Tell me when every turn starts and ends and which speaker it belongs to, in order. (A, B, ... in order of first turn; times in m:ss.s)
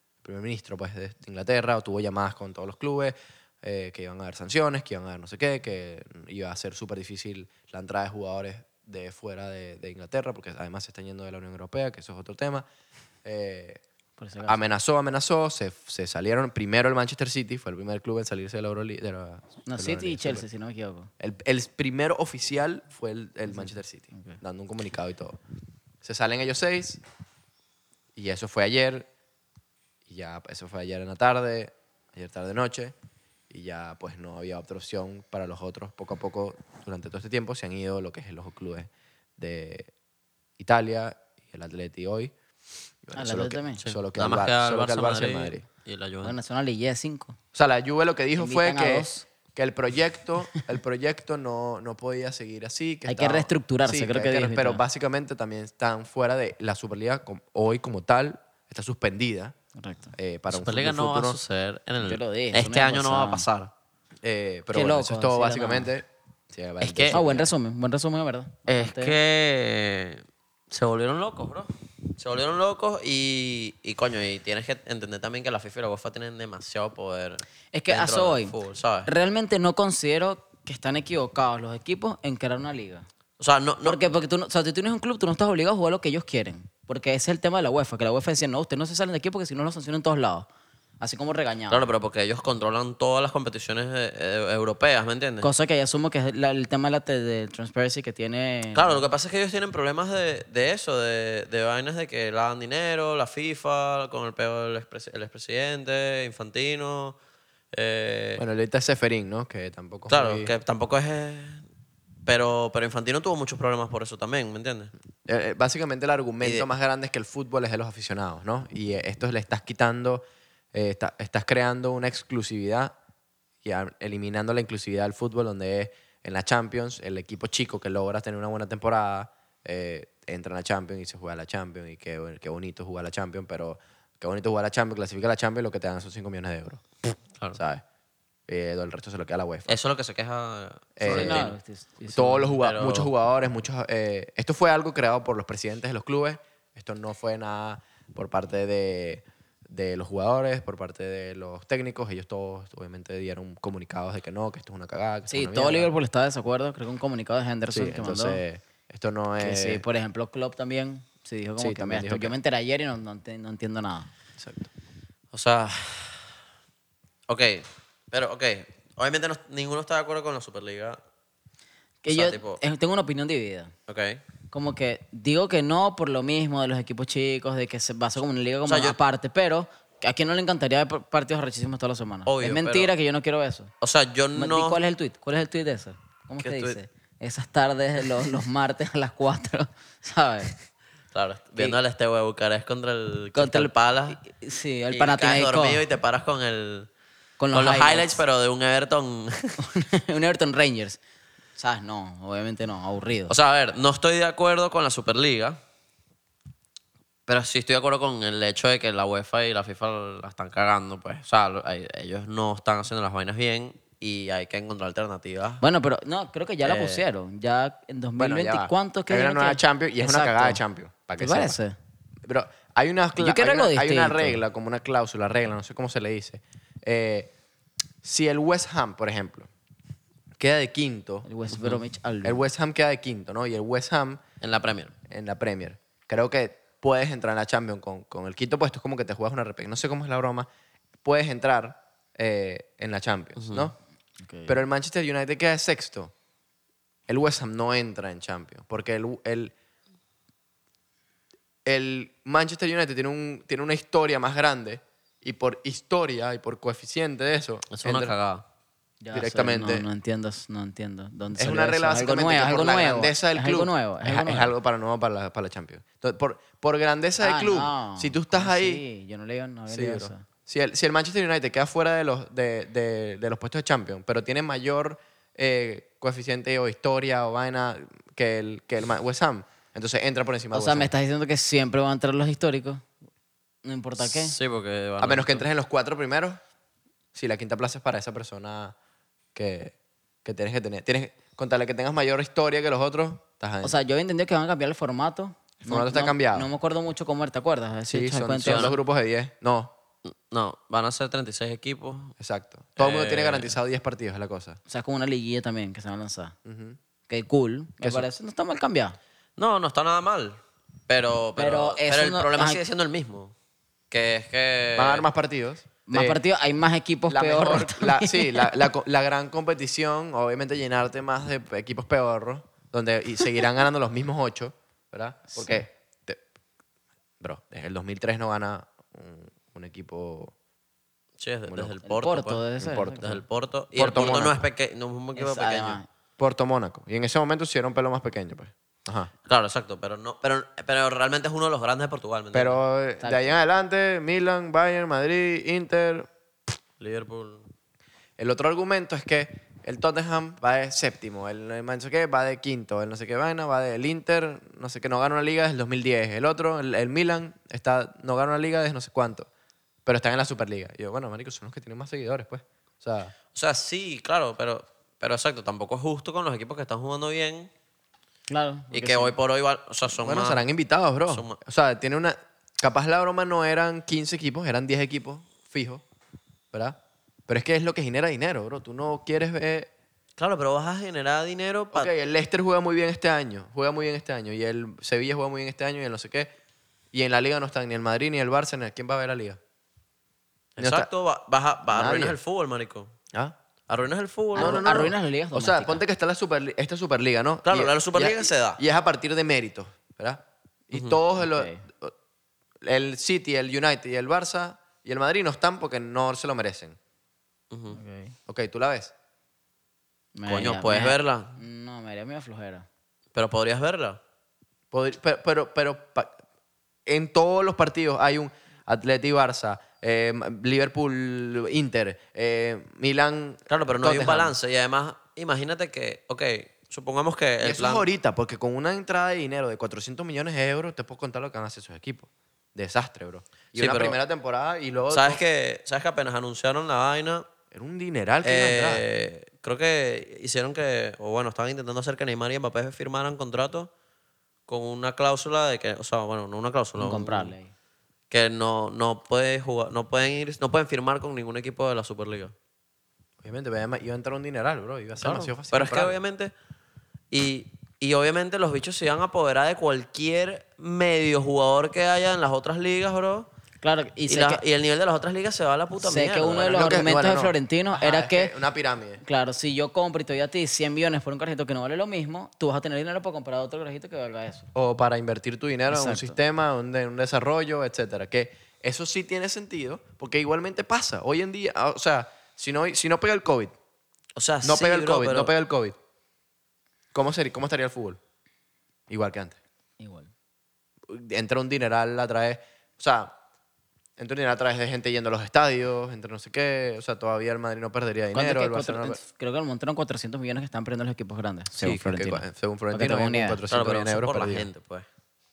0:00.2-0:12.6 A
0:13.2-0:13.8 A
0:14.2-0:14.6 B
0:14.4-0:20.4 A
0:19.6-0:21.1 B
0:21.2-0:25.4 A
0:23.5-0:24.4 B
0:26.0-0:27.0 A
0:28.2-0:29.1 A
0:30.1-0:32.9 A
0:33.5-0:39.9 A
0:40.6-0:42.3 A
0:43.0-0:45.6 A
0:43.2-0:43.8 B
0:43.8-0:46.4 C
0:46.2-0:47.4 B
0:47.5-0:59.5 A
0:48.4-0:49.3 B
0:53.0-0:54.8 B
0:59.8-1:00.1 B
1:00.1-1:01.4 A
1:00.5-1:03.7 C
1:02.0-1:03.4 B
1:04.2-1:07.5 A
1:04.7-1:05.9 B
1:06.8-1:07.2 C
1:07.1-1:09.2 B
1:08.7-1:19.1 C
1:17.7-1:18.5 B
1:19.0-1:23.1 B
1:23.4-1:24.0 C
1:23.8-1:30.5 B
1:31.0-1:31.9 B
1:31.7-1:35.5 C
1:35.4-1:39.0 B
1:38.7-1:47.2 C
1:47.7-1:48.4 C
1:48.4-1:50.5 A
1:50.1-1:51.6 C
1:52.2-1:54.9 C
1:55.2-2:02.9 A
2:03.6-2:16.8 A
2:17.5-2:17.8 A
2:18.5-2:19.8 A
2:19.7-2:21.5 C
2:21.0-2:21.5 A
2:21.0-2:22.6 B
2:22.1-2:35.9 A
2:22.6-2:23.1 C
2:35.3-2:38.4 B
2:37.7-2:39.8 A
2:39.4-2:44.1 B
2:41.6-2:42.4 A
2:44.4-2:44.7 A
2:45.3-2:46.3 C
2:47.3-2:51.0 C
2:52.0-2:53.7 B
2:52.1-2:52.6 C
2:53.9-2:54.2 C
2:54.5-3:03.7 B
2:58.6-2:59.0 C
3:02.2-3:02.9 C
3:03.8-3:04.8 C
3:04.3-3:10.5 B
3:06.4-3:06.8 C
3:11.1-3:14.2 C
3:13.3-3:15.8 B
3:14.9-3:16.9 C
3:17.4-3:18.2 B
3:17.5-3:19.6 C
3:19.6-3:21.0 B
3:21.6-3:23.3 B
3:23.3-3:25.6 C
3:27.3-3:35.6 C
3:35.6-3:40.6 B
3:36.6-3:37.0 C
3:38.2-3:41.6 A
3:41.2-3:41.7 B
3:42.2-3:47.3 A
3:43.2-3:44.4 B
3:48.0-3:49.5 A
3:50.4-3:51.3 A
3:51.2-3:52.4 B
3:51.5-3:51.8 C
3:52.2-3:54.2 A
3:54.4-3:54.9 C
3:55.1-4:00.5 A
4:01.0-4:03.8 A
4:03.4-4:03.7 C
4:04.2-4:04.6 B
4:04.5-4:06.1 A
4:07.1-4:09.5 A
4:11.6-4:18.1 A
4:17.7-4:18.4 C
4:19.0-4:24.5 B
4:19.1-4:19.8 A
4:21.4-4:28.8 A
4:27.2-4:30.2 B
4:29.7-4:40.9 A
4:40.5-4:42.8 B
4:43.6-4:44.3 B
4:44.0-4:45.4 C
4:45.0-4:46.4 A
4:47.1-4:48.7 A
4:49.3-4:49.7 A
4:50.2-4:53.7 A
4:53.6-4:58.8 B
4:55.6-4:56.5 A
4:57.9-4:59.7 A
4:58.4-4:58.8 C
5:00.0-5:02.1 C
5:02.2-5:04.6 A
5:02.8-5:03.6 C
5:04.7-5:06.4 B
5:06.4-5:06.8 A
5:07.1-5:09.0 B
5:07.8-5:08.1 A
5:09.4-5:13.3 C
5:11.4-5:12.6 B
5:13.9-5:15.0 C
5:14.8-5:16.2 A
5:15.9-5:18.7 B
5:17.1-5:26.2 A
5:27.2-5:30.3 A
5:31.2-5:35.8 C
5:31.5-5:31.7 A
5:31.8-5:33.2 B
5:32.6-5:33.2 A
5:33.8-5:34.4 A
5:34.0-5:34.3 B
5:35.2-5:35.8 B
5:36.2-5:39.1 A
5:39.2-5:42.6 C
5:42.3-5:46.1 A
5:43.0-5:43.3 B
5:46.8-5:47.5 C
5:48.2-5:59.3 A
5:59.8-6:03.1 A
6:03.3-6:07.5 C
6:08.3-6:09.1 B
6:08.7-6:10.4 C
6:09.9-6:15.8 A
6:11.1-6:11.4 C
6:16.5-6:19.7 A
6:20.2-6:21.9 C
6:21.7-6:26.3 A
6:26.9-6:29.4 A
6:30.6-6:32.9 C
6:30.6-6:30.9 A
6:31.7-6:32.2 A
6:33.7-6:34.7 C
6:34.4-6:35.8 B
6:34.4-6:41.9 A
6:37.4-6:38.6 C
6:40.7-6:41.0 C
6:41.2-6:41.6 B
6:42.6-6:46.8 A
6:47.5-6:47.8 C
6:47.7-6:48.2 B
6:48.3-6:48.9 A
6:50.2-6:52.6 B
6:50.3-6:51.4 C
6:53.1-6:54.0 C
6:54.7-6:56.2 A
6:56.8-7:04.3 A
7:03.5-7:07.8 C
7:07.4-7:15.2 A
7:13.5-7:14.0 C
7:14.9-7:17.2 C
7:17.5-7:18.8 A
7:18.2-7:23.7 C
7:24.5-7:27.3 C
7:26.8-7:27.5 B
7:28.1-7:32.3 C
7:33.2-7:36.0 A
7:35.0-7:36.3 C
7:37.1-7:43.3 C
7:43.6-7:44.4 B
7:44.1-7:46.7 C
7:45.8-7:48.3 B
7:46.4-7:49.0 A
7:49.0-7:54.5 B
7:54.5-8:03.5 A
7:55.7-7:56.2 B
8:04.2-8:05.3 C
8:04.4-8:05.8 A
8:06.9-8:08.0 A
8:08.9-8:09.4 A
8:09.8-8:10.1 B
8:10.9-8:13.1 A
8:14.0-8:19.0 A
8:18.1-8:23.4 B
8:21.6-8:24.5 A
8:23.5-8:24.8 C